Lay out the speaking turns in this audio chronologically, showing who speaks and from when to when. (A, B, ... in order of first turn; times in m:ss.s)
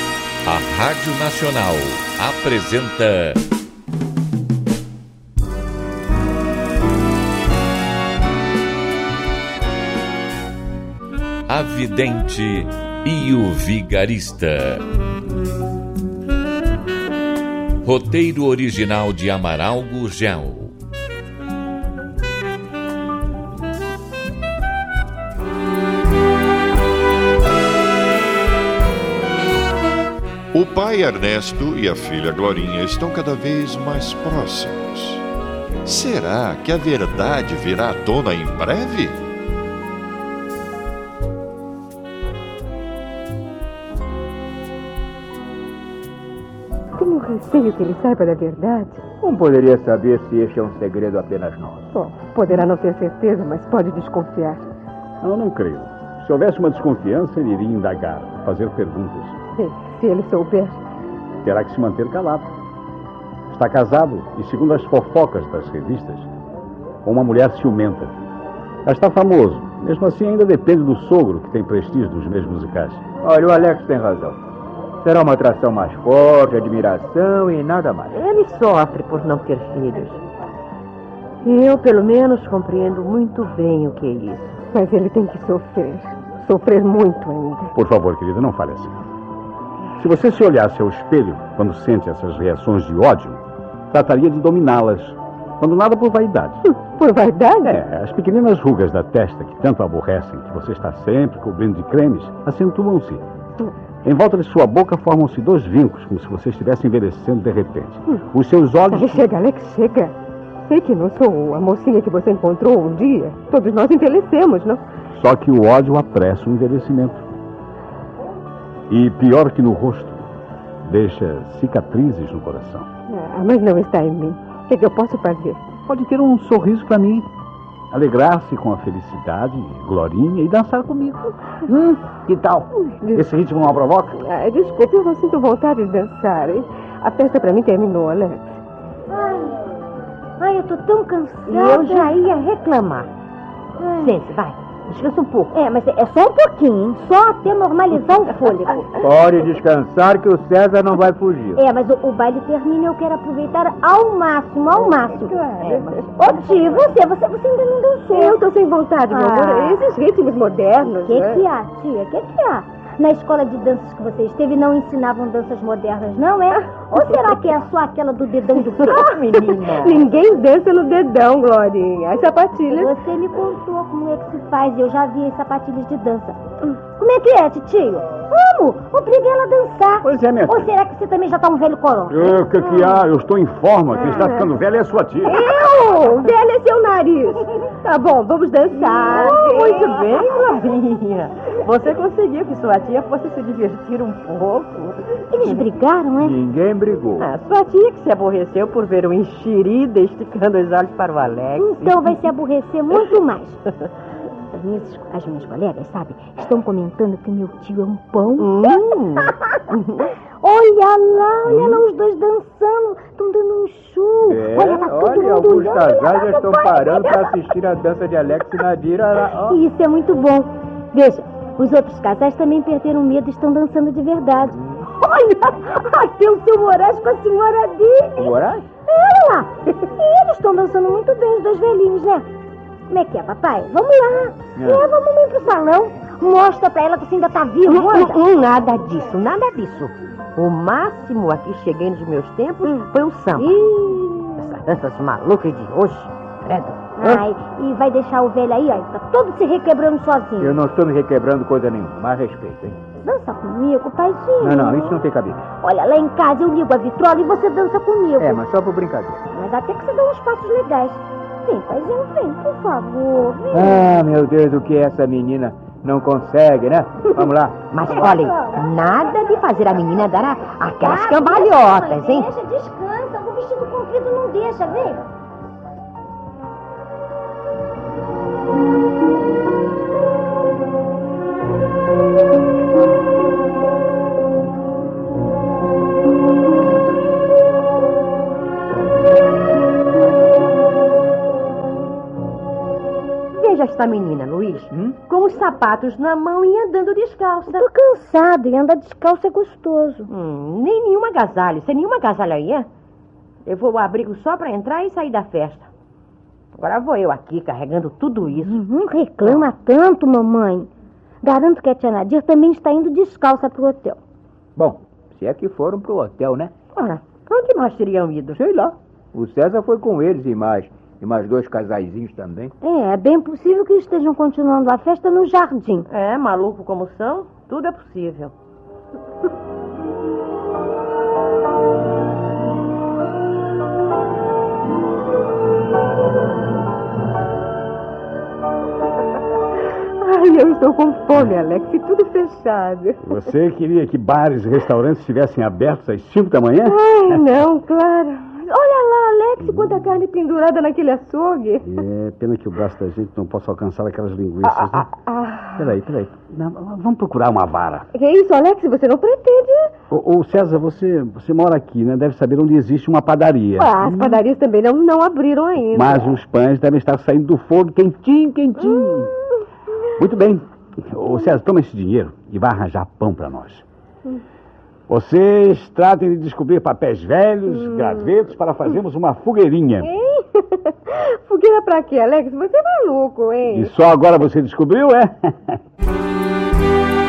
0:00.4-0:03.4 A
0:11.5-0:14.8 A
0:17.8-0:20.7 A
0:30.5-0:35.2 B
0:35.8-0:39.2 B
0:47.0-0:49.0 C
0:49.2-0:51.8 D
0:51.9-0:54.6 C
0:55.2-0:59.4 E
0:59.6-1:00.8 C
1:01.4-1:02.5 E
1:03.5-1:06.3 E
1:07.0-1:08.1 E
1:08.9-1:13.0 E
1:13.2-1:14.4 D
1:15.0-1:18.1 D
1:18.1-1:20.2 F
1:21.4-1:24.6 F
1:24.7-1:27.7 C
1:27.8-1:28.9 E
1:30.0-1:36.6 E
1:36.7-1:37.8 C
1:37.6-1:43.2 E
1:44.0-1:49.2 E
1:48.9-1:54.8 C
1:55.1-1:57.2 E
1:58.9-2:00.3 E
2:00.8-2:02.9 E
2:03.1-2:05.6 C
2:05.9-2:07.3 E
2:07.9-2:14.2 E
2:13.0-2:13.3 C
2:14.2-2:18.6 C
2:19.1-2:19.7 G
2:20.4-2:22.2 G
2:21.5-2:23.1 F
2:23.8-2:24.1 G
2:24.0-2:25.5 F
2:25.5-2:29.1 G
2:29.0-2:31.6 D
2:31.6-2:35.4 G
2:34.8-2:36.5 C
2:35.6-2:36.0 F
2:36.2-2:38.4 G
2:38.1-2:41.4 C
2:39.1-2:39.5 G
2:39.2-2:39.8 F
2:41.0-2:49.0 G
2:48.8-2:50.1 F
2:49.8-2:52.9 C
2:52.7-2:56.4 G
2:57.0-3:02.9 G
3:00.0-3:00.7 E
3:02.1-3:05.5 E
3:05.3-3:07.4 C
3:07.6-3:15.6 F
3:09.1-3:09.7 C
3:15.3-3:16.4 G
3:16.2-3:17.3 D
3:17.2-3:22.1 F
3:21.6-3:23.6 G
3:24.5-3:28.7 G
3:28.4-3:30.1 F
3:30.4-3:37.4 G
3:31.5-3:31.8 D
3:34.3-3:39.6 D
3:39.4-3:52.3 G
3:48.2-3:48.7 D
3:52.9-3:58.2 G
3:54.6-3:54.8 D
3:57.7-4:03.5 F
4:03.4-4:04.5 G
4:04.4-4:07.2 F
4:07.0-4:10.6 G
4:10.4-4:12.8 D
4:13.0-4:15.0 G
4:14.4-4:15.4 D
4:15.6-4:18.4 G
4:18.2-4:19.2 D
4:19.3-4:23.9 G
4:23.5-4:27.6 D
4:27.2-4:32.3 F
4:27.9-4:28.7 G
4:30.8-4:35.0 G
4:53.3-4:57.7 F
4:57.5-5:00.1 G
5:00.1-5:02.7 F
5:03.4-5:05.7 F
5:06.5-5:08.6 F
5:08.4-5:10.7 G
5:11.2-5:14.0 G
5:14.6-5:16.5 D
5:16.8-5:18.5 F
5:18.4-5:22.5 D
5:22.6-5:25.9 G
5:25.9-5:28.3 F
5:40.0-5:43.0 C
5:43.0-5:46.8 E
5:46.7-5:51.6 C
5:51.6-5:54.9 E
5:54.4-5:55.7 C
5:55.6-5:57.9 E
5:57.9-5:59.7 C
5:59.9-6:04.2 E
6:03.6-6:06.2 C
6:05.7-6:09.1 E
6:08.6-6:08.9 C
6:10.0-6:13.6 E
6:14.9-6:19.9 E
6:17.5-6:18.1 C
6:19.8-6:23.7 C
6:23.5-6:25.6 E